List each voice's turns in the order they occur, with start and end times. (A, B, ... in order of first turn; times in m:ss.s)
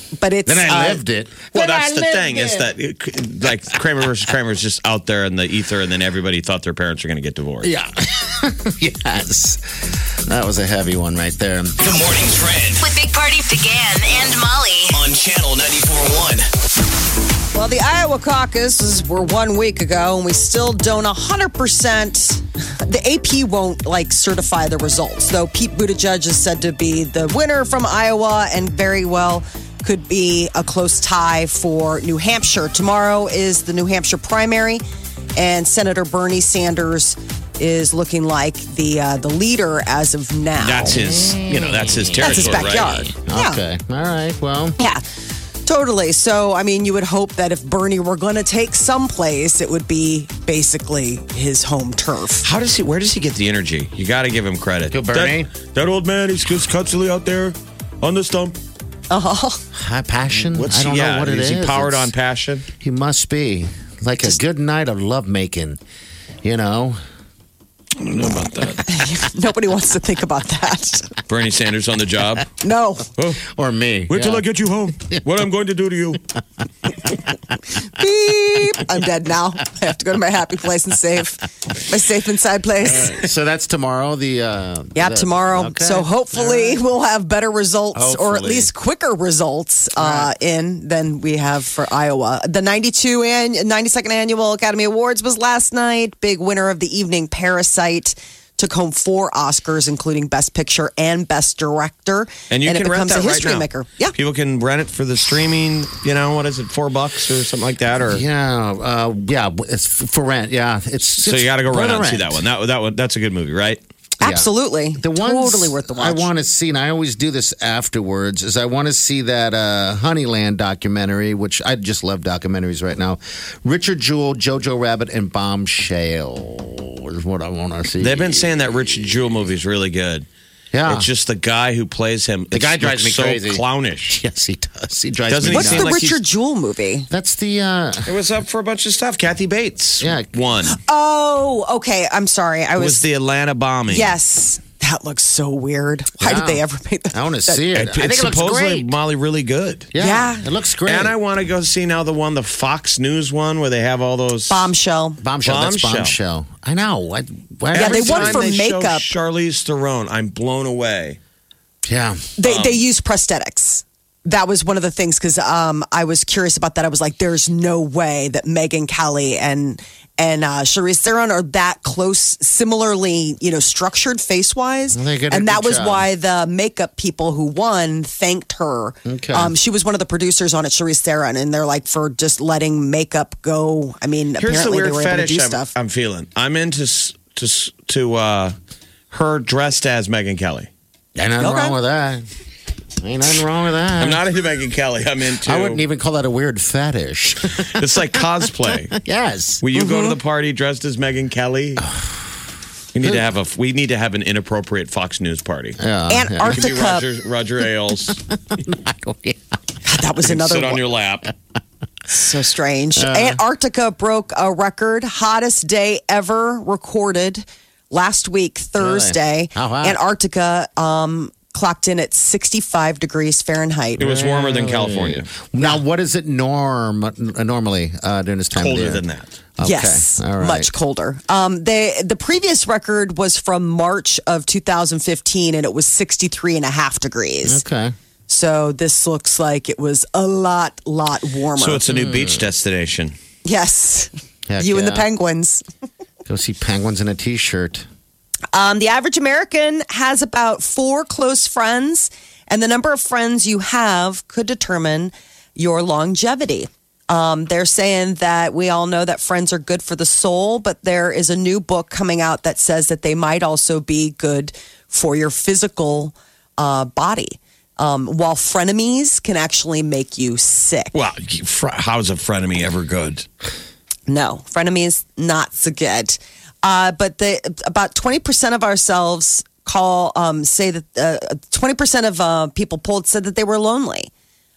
0:00.2-0:01.0 A
0:00.4-0:02.7 B
0:01.5-0:07.7 C
0:07.6-0:09.6 B
0:10.3-0:11.8 B
0:11.8-0:12.8 D
0:12.8-0:15.0 E
0:14.9-0:16.4 D
0:17.5-0:34.8 A
0:35.4-0:41.0 A
0:40.6-0:43.1 C
0:40.9-0:44.8 B
0:42.2-0:43.6 A
0:45.6-0:52.4 A
0:52.4-0:58.6 C
0:54.9-0:55.5 B
0:59.1-0:59.6 A
0:59.8-1:02.1 B
1:00.4-1:02.7 C
1:02.8-1:05.8 B
1:06.4-1:07.0 B
1:08.0-1:08.8 C
1:08.9-1:11.1 A
1:11.3-1:12.5 C
1:12.6-1:13.1 A
1:13.2-1:13.4 C
1:13.4-1:14.4 B
1:14.1-1:16.2 C
1:18.0-1:23.2 A
1:22.8-1:26.8 B
1:25.0-1:44.1 A
1:27.9-1:28.7 B
1:30.0-1:30.3 B
1:42.5-1:48.2 C
1:48.0-1:52.4 B
1:51.2-1:53.8 C
1:54.2-1:54.5 B
1:54.2-1:56.3 A
1:55.0-2:09.3 B
2:08.0-2:10.3 C
2:10.7-2:11.1 B
2:10.9-2:14.2 C
2:12.5-2:16.1 B
2:15.3-2:16.2 C
2:15.5-2:17.1 A
2:17.1-2:18.1 B
2:18.1-2:20.8 C
2:20.0-2:20.3 B
2:20.7-2:23.0 A
2:22.8-2:24.1 C
2:23.9-2:27.7 A
2:26.2-2:28.9 B
2:27.7-2:29.9 C
2:29.9-2:31.2 B
2:30.0-2:30.4 A
2:30.8-2:34.7 C
2:34.5-2:35.2 A
2:35.2-2:38.5 B
2:35.4-2:36.2 C
2:37.7-2:39.1 A
2:37.7-2:41.2 C
2:41.9-2:42.4 B
2:42.4-3:05.7 A
2:42.4-2:42.8 C
2:54.9-2:56.1 B
2:59.1-2:59.6 B
3:04.4-3:08.5 C
3:09.1-3:10.7 C
3:11.2-3:12.3 B
3:11.4-3:11.8 A
3:13.0-3:14.2 B
3:14.0-3:15.8 C
3:15.4-3:18.4 B
3:17.8-3:19.0 C
3:18.9-3:19.6 B
3:19.6-3:21.8 C
3:19.8-3:20.2 A
3:21.8-3:22.1 B
3:22.9-3:25.8 C
3:25.8-3:26.7 B
3:26.1-3:27.0 A
3:26.4-3:28.2 C
3:28.1-3:29.6 B
3:29.8-3:30.8 A
3:30.2-3:31.3 C
3:32.1-3:44.0 A
3:33.0-3:33.4 B
3:38.8-3:40.0 B
3:44.0-3:45.3 C
3:44.0-3:49.0 B
3:48.6-3:49.3 C
3:49.6-3:50.7 B
3:49.6-3:57.6 A
3:57.4-3:58.0 B
3:58.3-4:01.8 A
4:01.6-4:03.2 C
4:01.9-4:02.4 B
4:03.4-4:05.6 A
4:04.5-4:05.1 B
4:06.3-4:07.9 B
4:08.5-4:30.9 A
4:30.9-4:33.3 C
4:34.1-4:44.1 A